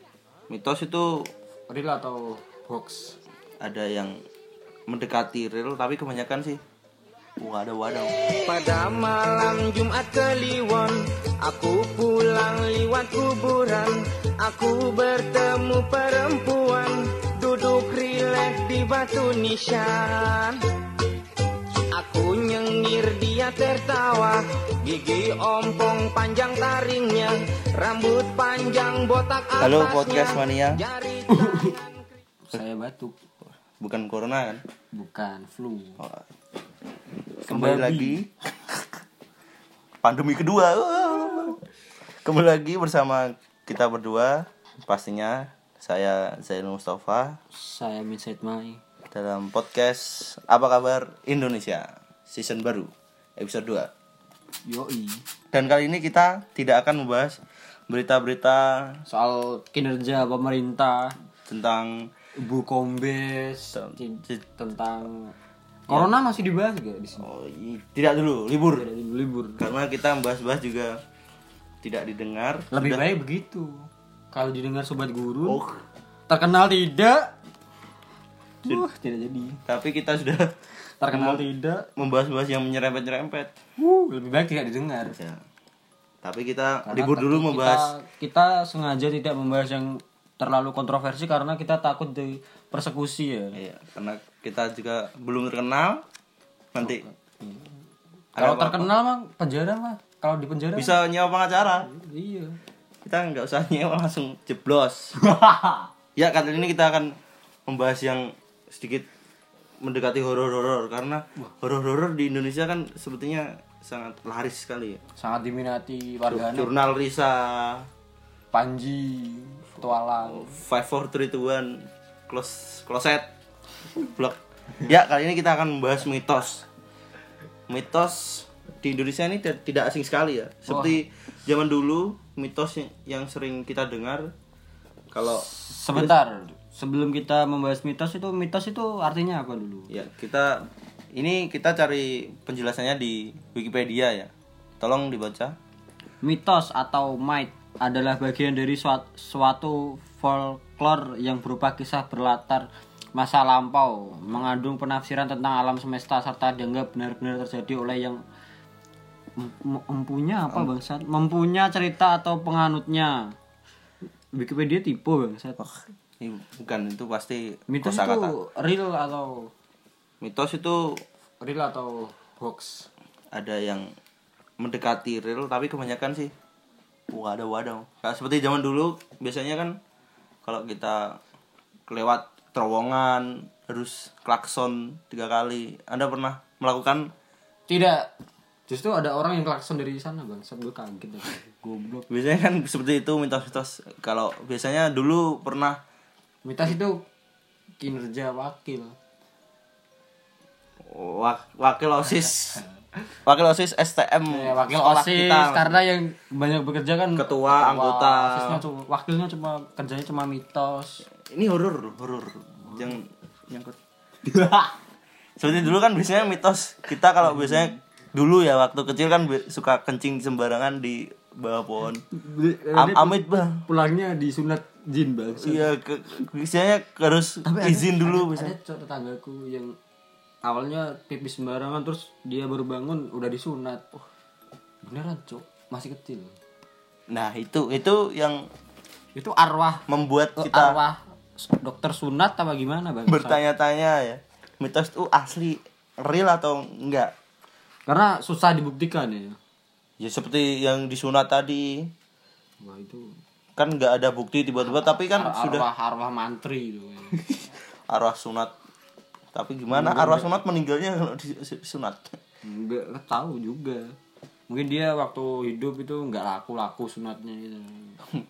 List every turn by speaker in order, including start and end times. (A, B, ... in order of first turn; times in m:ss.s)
0:00.5-0:01.3 A
0:01.7-0:03.2 B
0:03.6-0:04.2 A
0:04.9-0:06.6 A
0:07.4-0:08.1 A
0:08.4-0:20.6 C
0:21.9-0:32.0 C
0:29.6-0:30.8 A
0:31.3-0:31.8 B
0:32.5-0:33.2 B
0:33.8-0:34.6 A
0:34.9-0:36.0 B
0:36.0-0:36.3 A
0:37.4-0:38.2 B
0:37.4-0:38.8 A
0:40.0-0:41.6 A
0:42.2-0:47.4 A
0:47.5-0:48.8 B
0:49.1-0:53.9 A
0:54.7-0:55.2 B
0:55.5-0:59.0 A
0:59.1-1:01.2 B
1:01.5-1:02.1 A
1:02.4-1:05.3 B
1:03.8-1:04.4 A
1:05.9-1:07.3 B
1:07.2-1:08.9 A
1:08.7-1:09.6 B
1:09.6-1:11.0 A
1:11.8-1:13.0 A
1:12.7-1:15.6 B
1:15.4-1:15.8 A
1:16.3-1:17.4 B
1:18.6-1:19.6 B
1:19.7-1:20.6 A
1:21.0-1:21.9 B
1:21.1-1:21.4 A
1:22.0-1:23.5 A
1:23.8-1:25.2 B
1:25.2-1:25.4 A
1:26.2-1:27.9 A
1:26.8-1:33.6 B
1:33.6-1:36.0 A
1:36.7-1:37.0 A
1:36.8-1:37.7 B
1:38.4-1:38.9 A
1:38.4-1:41.0 B
1:40.8-1:41.9 A
1:41.8-1:42.6 B
1:43.0-1:45.2 A
1:45.2-1:45.9 B
1:46.2-1:47.2 A
1:47.7-1:49.1 A
1:49.8-1:55.0 A
1:55.2-1:56.7 B
1:56.3-1:57.9 A
1:58.5-2:00.6 B
2:00.2-2:03.3 A
2:04.0-2:06.7 A
2:07.7-2:14.3 A
2:10.7-2:11.0 B
2:15.1-2:16.1 A
2:15.2-2:19.9 B
2:19.9-2:25.6 A
2:26.2-2:38.2 B
2:39.4-2:43.4 B
2:44.4-2:45.6 B
2:46.2-2:48.3 A
2:47.7-2:49.5 B
2:50.2-2:51.0 A
2:51.4-2:52.9 B
2:53.3-2:53.9 A
2:54.6-2:56.3 A
2:57.1-2:59.8 A
3:00.4-3:01.2 A
3:01.9-3:07.1 A
3:07.7-3:08.1 B
3:08.7-3:12.1 B
3:12.1-3:15.8 A
3:16.4-3:17.0 B
3:17.8-3:19.0 B
3:20.8-3:22.6 A
3:23.2-3:25.8 A
3:24.3-3:31.1 B
3:27.2-3:28.6 A
3:31.2-3:33.8 A
3:34.3-3:34.7 B
3:35.4-3:42.0 A
3:42.1-3:45.7 B
3:42.7-3:43.6 A
3:45.4-3:48.5 A
3:47.4-3:49.8 B
3:50.4-3:53.9 B
3:54.8-3:56.3 B
3:57.1-3:58.4 A
3:59.2-4:03.4 B
3:59.9-4:00.8 A
4:03.1-4:07.1 A
4:07.9-4:09.4 B
4:10.0-4:11.9 A
4:12.6-4:13.2 B
4:13.6-4:15.7 A
4:14.7-4:17.2 B
4:17.2-4:18.5 A
4:19.3-4:22.2 A
4:19.7-4:20.4 B
4:22.4-4:24.0 B
4:24.5-4:28.0 B